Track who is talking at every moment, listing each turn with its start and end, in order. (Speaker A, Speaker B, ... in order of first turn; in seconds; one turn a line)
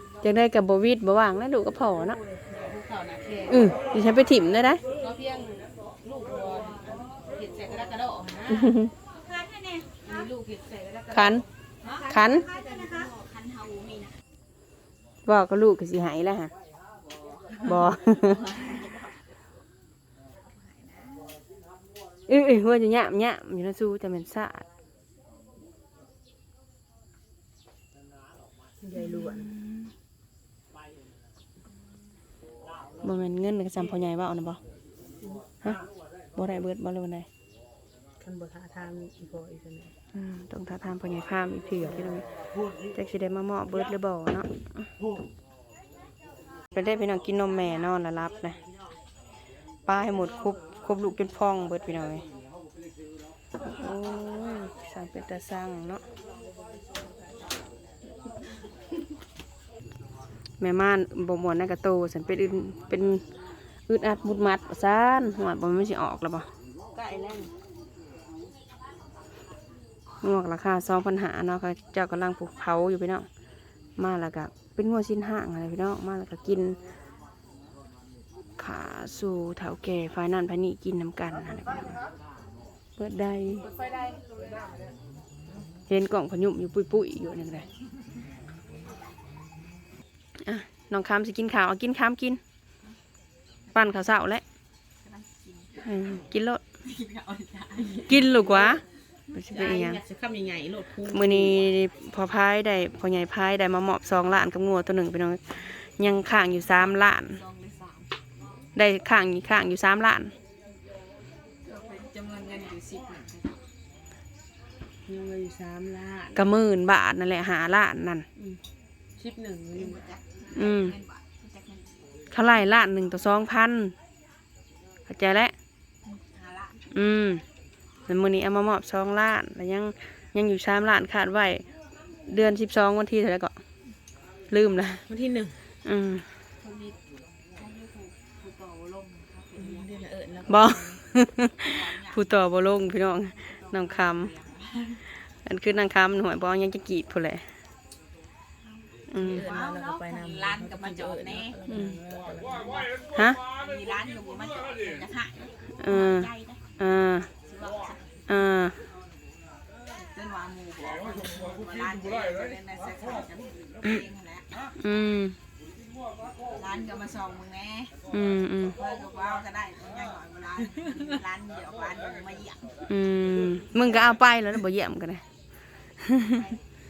Speaker A: 0.2-2.2
Speaker B: 2.2-3.7
Speaker A: 3.5-4.8
Speaker B: 4.9-8.7
Speaker A: 8.5-8.9
Speaker C: 9.2-10.0
Speaker B: 10.0-11.9
Speaker A: 11.1-11.4
Speaker C: 11.9-14.2
Speaker A: 12.1-12.4
Speaker A: 15.2-16.5
Speaker C: 17.4-19.4
Speaker A: 17.6-18.4
Speaker C: 20.4-21.4
Speaker A: 22.3-24.6
Speaker B: 28.8-29.5
Speaker A: 29.0-29.9
Speaker A: 33.0-34.6
Speaker A: 36.4-37.3
Speaker B: 38.2-39.9
Speaker A: 40.1-42.2
Speaker A: 42.9-44.9
Speaker A: 46.7-48.6
Speaker A: 49.9-52.2
Speaker A: 53.6-56.0
Speaker A: 60.6-63.2
Speaker A: 63.9-66.5
Speaker C: 66.9-67.5
Speaker A: 70.2-73.3
Speaker A: 74.0-76.8
Speaker A: 78.6-82.0
Speaker A: 83.0-83.7
Speaker A: 85.9-87.7
Speaker A: 90.4-92.4
Speaker A: 93.7-94.4
Speaker C: 95.0-95.8
Speaker A: 95.8-96.6
Speaker C: 96.8-98.0
Speaker A: 98.1-98.8
Speaker A: 99.3-100.0
Speaker B: 99.5-101.6
Speaker A: 101.1-107.4
Speaker C: 106.9-108.1
Speaker A: 108.8-110.3
Speaker C: 111.6-113.6
Speaker B: 115.0-116.5
Speaker A: 116.3-118.3
Speaker B: 119.2-120.1
Speaker C: 119.7-122.0
Speaker A: 120.5-120.9
Speaker A: 122.3-123.9
Speaker A: 125.1-125.5
Speaker C: 126.1-126.8
Speaker A: 126.9-127.4
Speaker A: 128.1-131.6
Speaker A: 132.3-133.6
Speaker A: 134.5-135.0
Speaker B: 135.1-135.6
Speaker A: 135.8-136.2
Speaker C: 136.6-137.0
Speaker C: 137.6-140.0
Speaker B: 139.6-141.0
Speaker A: 140.5-144.3
Speaker C: 141.6-142.2
Speaker C: 143.4-145.0
Speaker A: 145.4-147.4
Speaker C: 148.6-148.9
Speaker A: 149.1-149.4
Speaker B: 149.1-152.9
Speaker C: 149.4-151.6
Speaker A: 151.7-152.0
Speaker A: 153.1-153.4
Speaker C: 153.5-156.6
Speaker A: 155.8-157.3
Speaker C: 157.4-158.2
Speaker A: 158.3-158.8
Speaker C: 159.9-164.5
Speaker A: 164.8-165.3
Speaker C: 166.5-167.9
Speaker A: 168.1-168.8
Speaker C: 168.8-172.7
Speaker A: 172.9-175.2
Speaker A: 176.0-176.4